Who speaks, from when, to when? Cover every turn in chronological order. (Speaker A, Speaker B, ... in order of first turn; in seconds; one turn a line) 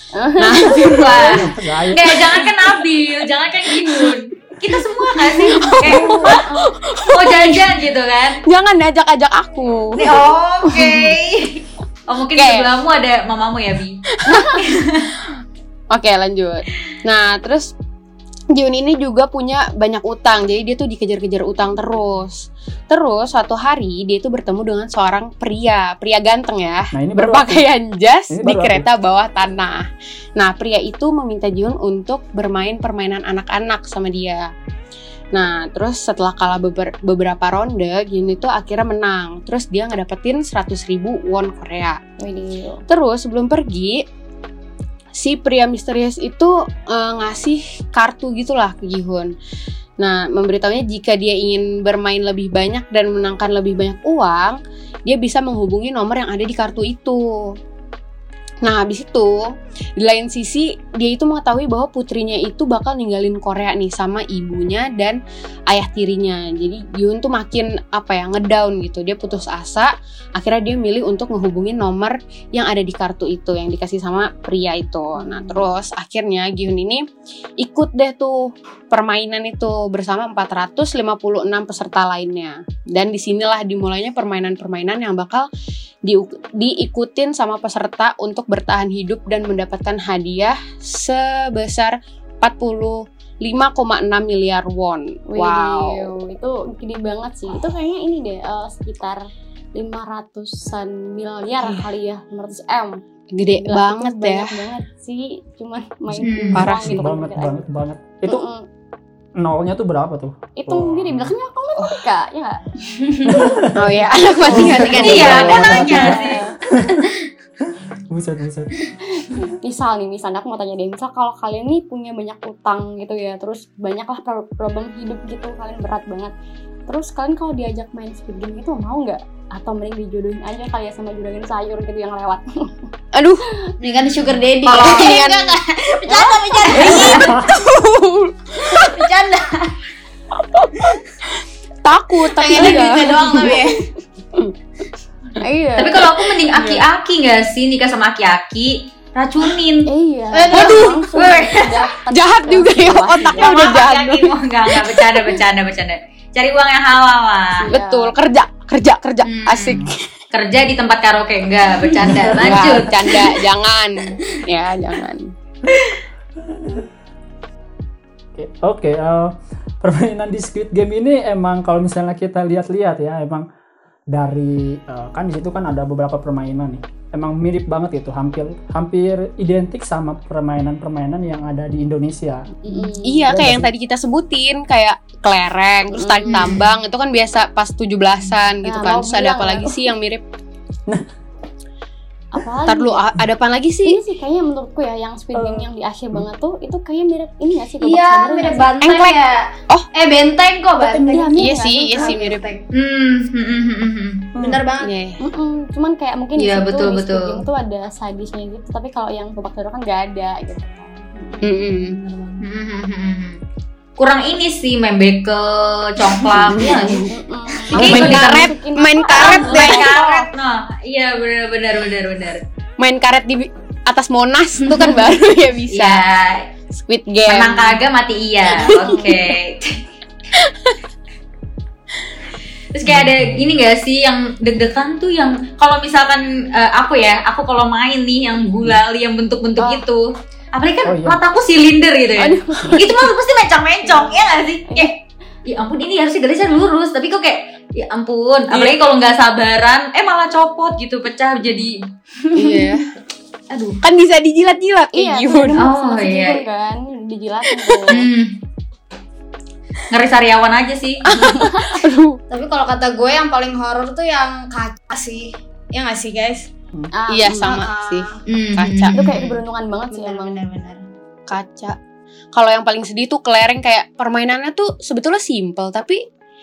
Speaker A: 0.1-1.0
Speaker B: 0.4-1.5
Speaker C: 0.8-6.4
Speaker D: 1.2-2.4
Speaker B: 3.8-4.1
Speaker B: 5.1-7.8
Speaker A: 5.6-6.7
Speaker C: 7.1-8.4
Speaker B: 8.4-10.2
Speaker C: 9.9-15.1
Speaker B: 10.8-11.1
Speaker B: 12.3-12.7
Speaker B: 14.1-14.7
Speaker B: 15.9-17.7
Speaker B: 18.5-34.5
Speaker D: 26.9-27.7
Speaker D: 28.3-28.9
Speaker B: 35.3-42.0
Speaker A: 42.2-42.8
Speaker B: 42.9-44.0
Speaker B: 45.1-49.3
Speaker B: 50.0-57.4
Speaker B: 58.6-59.4
Speaker B: 60.0-65.2
Speaker B: 65.7-77.0
Speaker A: 75.2-75.6
Speaker B: 77.6-85.5
Speaker B: 86.0-96.2
Speaker A: 95.3-99.2
Speaker A: 99.8-103.0
Speaker B: 103.3-104.6
Speaker A: 103.5-107.6
Speaker C: 106.2-106.7
Speaker B: 106.5-107.1
Speaker D: 106.7-108.4
Speaker A: 108.2-108.7
Speaker D: 109.4-111.3
Speaker A: 110.6-112.6
Speaker B: 111.8-112.0
Speaker D: 113.3-113.8
Speaker B: 113.7-115.9
Speaker A: 114.4-116.5
Speaker D: 114.5-117.1
Speaker C: 114.7-116.4
Speaker D: 117.7-118.7
Speaker A: 119.2-126.3
Speaker A: 126.9-132.9
Speaker B: 133.1-133.4
Speaker E: 133.8-137.4
Speaker B: 134.6-135.6
Speaker B: 136.1-139.1
Speaker A: 136.7-137.1
Speaker E: 138.7-139.7
Speaker B: 140.4-143.8
Speaker E: 142.3-143.9
Speaker A: 142.6-142.9
Speaker A: 145.3-146.1
Speaker C: 145.8-149.9
Speaker B: 146.5-146.8
Speaker A: 149.9-153.6
Speaker E: 150.3-150.9
Speaker B: 150.5-151.2
Speaker C: 151.1-151.8
Speaker B: 152.1-155.3
Speaker C: 153.4-157.7
Speaker A: 157.5-158.1
Speaker B: 157.7-160.0
Speaker C: 159.2-163.3
Speaker D: 162.0-162.8
Speaker B: 162.3-165.3
Speaker D: 166.5-166.8
Speaker D: 168.3-173.4
Speaker D: 174.1-182.5
Speaker A: 182.6-183.3
Speaker B: 182.8-190.2
Speaker D: 183.3-183.7
Speaker A: 185.9-186.5
Speaker C: 186.3-186.7
Speaker A: 188.6-189.8
Speaker A: 192.3-193.0
Speaker B: 192.7-194.0
Speaker A: 193.8-198.7
Speaker D: 195.3-196.2
Speaker E: 197.8-202.7
Speaker B: 198.8-199.9
Speaker A: 200.8-202.3
Speaker B: 201.3-202.4
Speaker C: 202.7-204.3
Speaker D: 204.4-204.6
Speaker E: 204.4-204.9
Speaker B: 204.8-205.2
Speaker A: 205.2-212.4
Speaker C: 206.4-207.4
Speaker B: 211.4-212.0
Speaker C: 212.4-213.4
Speaker C: 214.0-217.1
Speaker B: 216.2-217.1
Speaker A: 216.6-220.0
Speaker E: 217.7-218.0
Speaker C: 217.7-218.5
Speaker B: 217.7-220.3
Speaker C: 219.1-222.4
Speaker B: 222.8-226.1
Speaker C: 225.7-226.5
Speaker B: 226.7-227.8
Speaker C: 227.2-229.8
Speaker B: 228.5-229.3
Speaker B: 230.3-230.8
Speaker C: 232.7-251.7
Speaker D: 232.8-233.6
Speaker D: 240.8-241.2
Speaker A: 242.2-242.9
Speaker A: 244.7-244.9
Speaker B: 248.5-248.8
Speaker B: 252.3-252.9
Speaker E: 252.4-252.8
Speaker C: 253.5-253.8
Speaker B: 253.8-255.6
Speaker A: 254.9-258.1
Speaker C: 255.6-256.4
Speaker B: 257.5-258.0
Speaker C: 257.9-258.4
Speaker C: 259.9-261.3
Speaker B: 261.1-262.2
Speaker A: 261.2-261.8
Speaker E: 262.3-266.5
Speaker A: 266.9-267.6
Speaker B: 267.1-269.0
Speaker E: 267.4-268.2
Speaker C: 268.3-269.4
Speaker A: 268.9-270.5
Speaker E: 269.9-270.8
Speaker B: 271.3-271.8
Speaker B: 272.3-276.0